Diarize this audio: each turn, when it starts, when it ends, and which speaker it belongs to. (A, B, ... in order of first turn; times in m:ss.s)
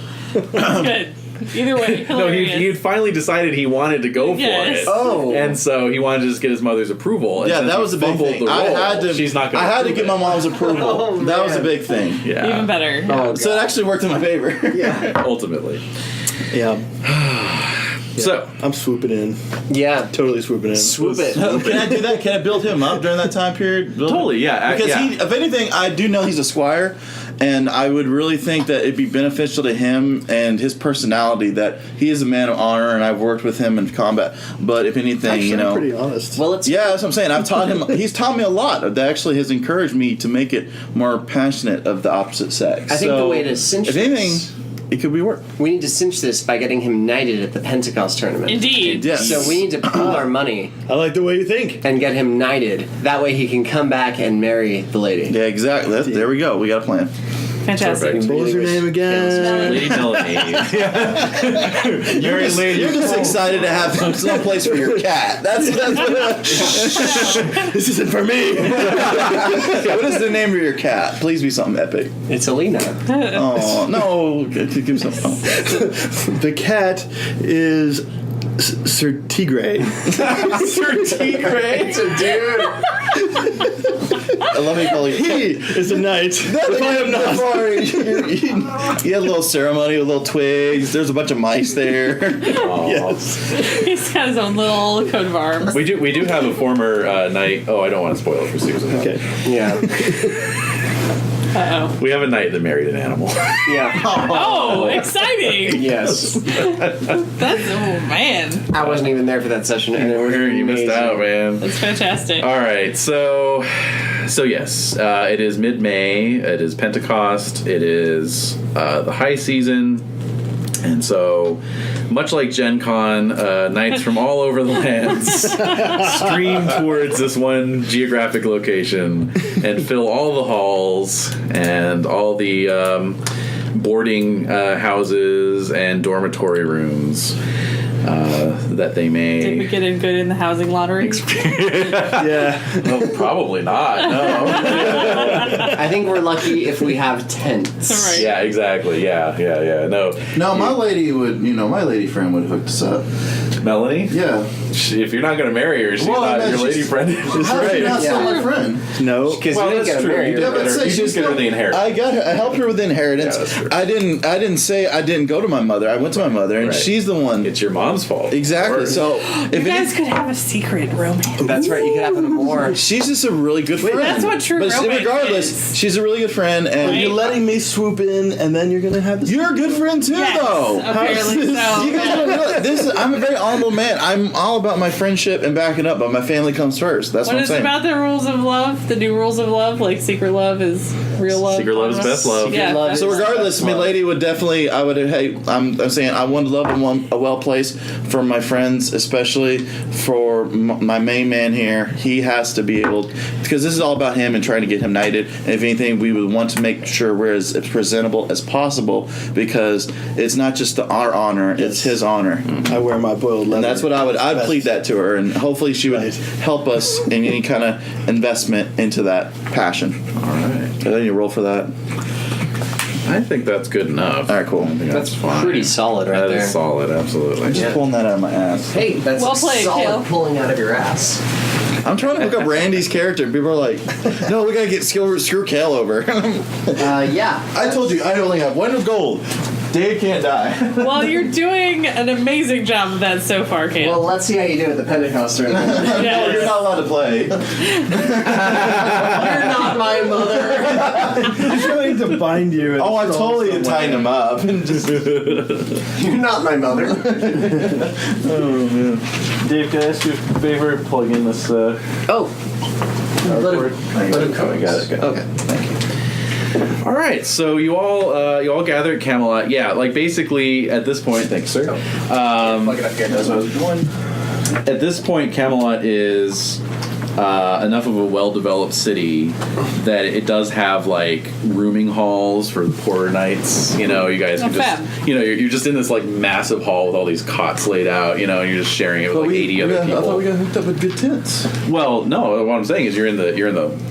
0:00.5-0:02.8 A
0:00.6-0:00.9 B
0:01.8-0:10.5 C
0:04.2-0:05.0 A
0:04.9-0:05.6 D
0:07.4-0:12.3 B
0:10.5-0:11.7 D
0:12.2-0:12.8 C
0:12.4-0:13.3 A
0:13.0-0:13.7 D
0:13.1-0:15.2 B
0:14.7-0:15.1 D
0:15.0-0:15.8 C
0:16.5-0:16.9 E
0:17.0-0:18.6 C
0:18.2-0:19.4 E
0:19.7-0:20.1 D
0:20.1-0:22.0 E
0:20.7-0:21.8 D
0:21.0-0:21.9 C
0:21.3-0:35.9 B
0:24.1-0:25.1 C
0:35.3-0:36.4 E
0:36.4-0:37.0 D
0:36.6-0:45.5 B
0:42.9-0:44.5 D
0:45.6-0:50.7 D
0:48.5-0:49.1 A
0:48.9-0:50.2 B
0:49.0-0:49.6 C
0:50.9-0:51.8 E
0:51.8-0:55.4 D
0:55.3-0:57.1 B
0:56.0-0:56.3 E
0:57.7-0:58.4 A
0:57.7-0:58.3 C
0:58.1-0:59.5 D
0:58.2-1:05.0 E
0:59.3-1:00.3 A
0:59.6-1:04.4 C
1:02.2-1:07.4 B
1:05.8-1:10.0 E
1:06.5-1:06.9 D
1:07.0-1:07.7 A
1:08.8-1:12.2 B
1:12.3-1:13.0 D
1:13.1-1:15.8 B
1:15.4-1:18.0 E
1:18.6-1:20.7 E
1:20.1-1:22.3 C
1:21.3-1:22.9 D
1:23.2-1:23.8 E
1:24.3-1:32.7 B
1:24.9-1:28.3 E
1:32.5-1:33.3 C
1:32.8-1:33.5 E
1:33.5-1:35.8 A
1:35.7-1:39.3 C
1:38.9-1:39.2 E
1:39.4-1:39.9 D
1:39.7-1:40.4 E
1:41.5-1:42.0 A
1:42.0-1:43.9 C
1:43.7-1:44.1 D
1:43.9-1:45.0 B
1:44.1-1:45.9 A
1:44.7-1:45.0 D
1:45.6-1:47.2 C
1:45.7-1:46.5 D
1:46.5-1:48.7 A
1:48.7-1:51.4 D
1:48.8-1:49.2 C
1:49.9-1:51.7 C
1:51.6-1:52.5 A
1:52.4-2:00.0 C
2:00.8-2:13.2 C
2:13.7-2:17.4 C
2:18.0-2:19.7 C
2:19.4-2:22.2 A
2:21.0-2:25.7 C
2:22.2-2:23.3 E
2:24.0-2:25.8 A
2:24.1-2:25.1 B
2:24.5-2:25.8 E
2:25.6-2:28.2 D
2:27.8-2:28.4 A
2:28.1-2:30.8 C
2:30.3-2:33.1 B
2:33.6-2:34.2 C
2:34.1-2:34.5 B
2:34.7-2:38.3 C
2:36.0-2:38.9 B
2:37.3-2:38.1 E
2:37.9-2:38.5 D
2:39.0-2:39.5 E
2:39.2-2:41.0 D
2:39.5-2:42.0 C
2:40.3-2:47.5 B
2:43.2-2:43.8 C
2:46.6-2:49.0 C
2:48.3-2:49.9 B
2:49.2-2:51.5 A
2:51.4-2:52.8 E
2:51.4-2:52.8 D
2:52.8-2:57.2 B
2:53.8-2:54.3 E
2:53.8-2:55.7 A
2:56.8-2:59.9 E
2:56.8-2:57.2 A
2:59.2-3:01.1 B
3:00.1-3:02.4 A
3:00.9-3:02.9 E
3:01.7-3:07.8 B
3:07.2-3:13.3 A
3:11.4-3:12.8 C
3:12.4-3:14.0 D
3:12.9-3:32.7 B
3:31.6-3:31.9 E
3:32.6-3:34.7 E
3:33.5-3:40.0 B
3:35.9-3:36.2 E
3:40.2-3:40.8 C
3:40.8-3:41.7 B
3:43.0-3:47.7 C
3:44.3-3:44.8 B
3:44.9-3:46.6 D
3:47.4-3:48.8 B
3:48.7-3:51.2 D
3:49.1-3:50.1 A
3:51.8-4:01.0 B
3:56.8-3:58.0 D
4:00.8-4:04.1 A
4:03.8-4:06.5 D
4:05.5-4:11.4 B
4:05.9-4:06.6 A
4:08.8-4:11.4 D
4:11.0-4:14.2 E
4:12.8-4:15.3 B
4:14.9-4:15.8 C
4:15.9-4:17.8 D
4:17.1-4:17.8 B
4:17.8-4:21.8 C
4:22.1-4:22.3 D
4:23.2-4:25.3 D
4:23.3-4:25.1 C
4:23.8-4:24.8 B
4:25.4-4:25.7 B
4:26.8-4:32.8 C
4:32.4-4:33.4 D
4:33.0-4:33.9 B
4:34.6-4:36.6 C
4:37.2-4:50.3 C
4:44.4-4:44.9 A
4:49.1-4:51.5 B
4:51.6-4:53.8 C